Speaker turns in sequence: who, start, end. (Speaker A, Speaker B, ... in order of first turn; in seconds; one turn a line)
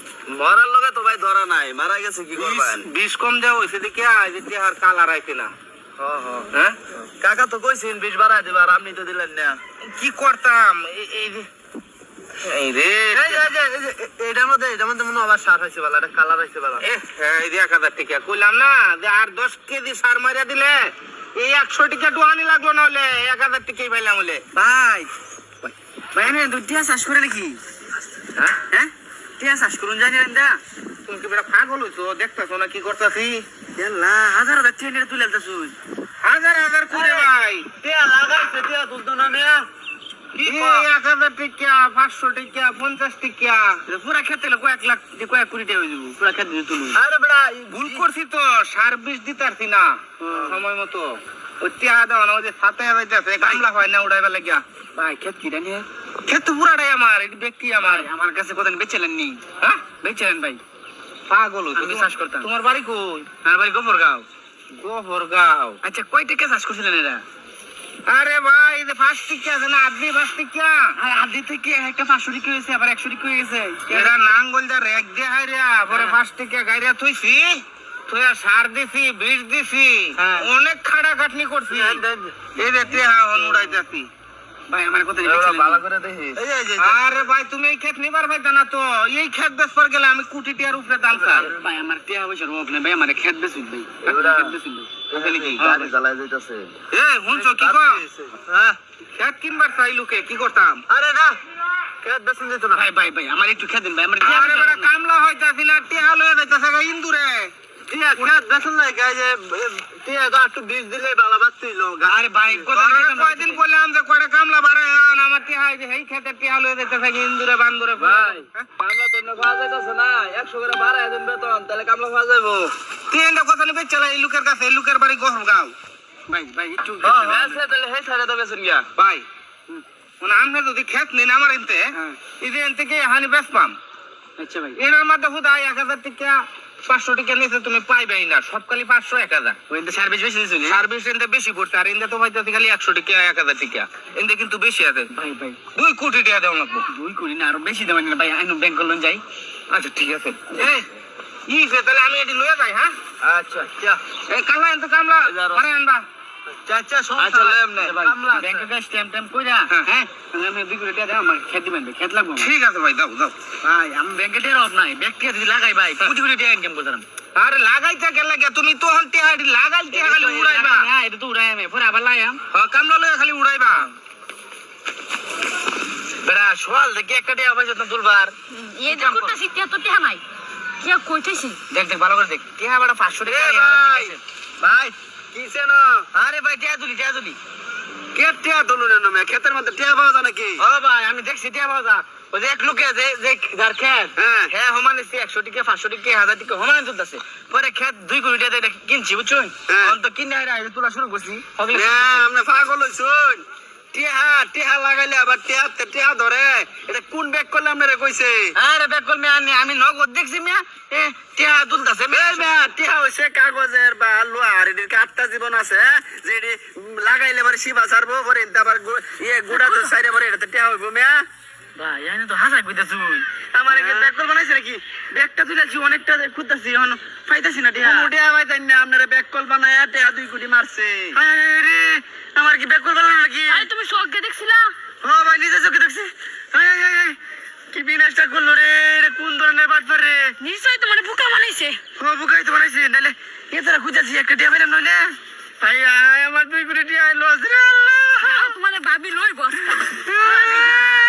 Speaker A: 0.3-2.9
Speaker B: 2.3-5.5
Speaker A: 6.0-9.6
Speaker B: 6.5-6.8
Speaker B: 9.8-11.5
Speaker B: 12.4-13.4
Speaker A: 13.1-16.8
Speaker B: 16.8-24.4
Speaker C: 24.5-25.1
Speaker C: 25.6-27.6
Speaker C: 28.5-30.6
Speaker B: 31.0-33.4
Speaker C: 33.8-35.7
Speaker B: 36.2-37.7
Speaker A: 36.9-39.7
Speaker B: 40.3-43.8
Speaker A: 40.4-40.9
Speaker C: 43.9-47.0
Speaker A: 46.9-48.1
Speaker B: 47.7-54.6
Speaker C: 50.2-50.6
Speaker C: 54.9-55.9
Speaker B: 56.2-58.1
Speaker C: 57.8-59.4
Speaker C: 60.0-60.6
Speaker B: 61.3-63.3
Speaker C: 61.8-62.5
Speaker C: 63.4-64.2
Speaker B: 64.7-65.8
Speaker C: 65.8-67.2
Speaker B: 68.0-70.9
Speaker C: 71.0-74.3
Speaker B: 73.9-84.1
Speaker C: 75.9-76.2
Speaker C: 80.2-80.5
Speaker A: 81.7-82.6
Speaker A: 83.2-83.7
Speaker C: 84.7-85.8
Speaker A: 85.2-87.0
Speaker B: 86.8-91.5
Speaker C: 91.1-95.9
Speaker A: 94.0-94.6
Speaker A: 95.1-96.7
Speaker B: 96.9-98.0
Speaker A: 97.3-98.8
Speaker B: 99.2-100.8
Speaker A: 100.9-101.4
Speaker A: 102.0-102.8
Speaker C: 102.7-104.9
Speaker B: 104.2-107.5
Speaker A: 107.9-112.2
Speaker C: 112.1-113.6
Speaker B: 112.7-118.7
Speaker A: 118.0-122.7
Speaker B: 123.1-125.7
Speaker C: 126.3-127.5
Speaker A: 127.0-128.9
Speaker B: 129.0-129.2
Speaker B: 130.2-133.8
Speaker C: 131.9-132.2
Speaker C: 134.4-134.8
Speaker B: 134.7-139.6
Speaker C: 139.7-140.8
Speaker B: 140.6-145.1
Speaker C: 145.1-145.6
Speaker B: 145.7-146.9
Speaker C: 146.9-149.2
Speaker B: 149.7-150.7
Speaker C: 150.3-150.9
Speaker B: 151.5-152.9
Speaker A: 153.2-154.0
Speaker B: 154.3-156.0
Speaker A: 155.2-155.7
Speaker A: 156.6-158.7
Speaker C: 157.2-162.5
Speaker B: 157.3-157.9
Speaker B: 162.4-163.3
Speaker C: 163.6-167.0
Speaker B: 167.3-170.9
Speaker C: 169.9-172.4
Speaker B: 172.5-173.9
Speaker C: 176.2-179.4
Speaker D: 178.5-180.2
Speaker D: 180.8-181.6
Speaker C: 181.7-184.2
Speaker A: 183.2-186.1
Speaker C: 186.1-187.4
Speaker A: 188.1-190.7
Speaker C: 190.6-202.2
Speaker A: 194.2-194.5
Speaker A: 199.7-199.9
Speaker A: 201.7-208.6
Speaker C: 208.5-212.6
Speaker A: 212.1-221.2
Speaker C: 219.6-219.9
Speaker C: 221.8-228.1
Speaker A: 223.7-224.1
Speaker A: 227.8-231.2
Speaker C: 231.1-233.7
Speaker D: 233.5-234.7
Speaker C: 235.0-237.2
Speaker C: 237.7-240.2
Speaker A: 239.4-240.3
Speaker D: 240.4-241.8
Speaker C: 242.0-245.1
Speaker A: 245.6-248.3
Speaker D: 248.2-250.9
Speaker C: 249.8-250.7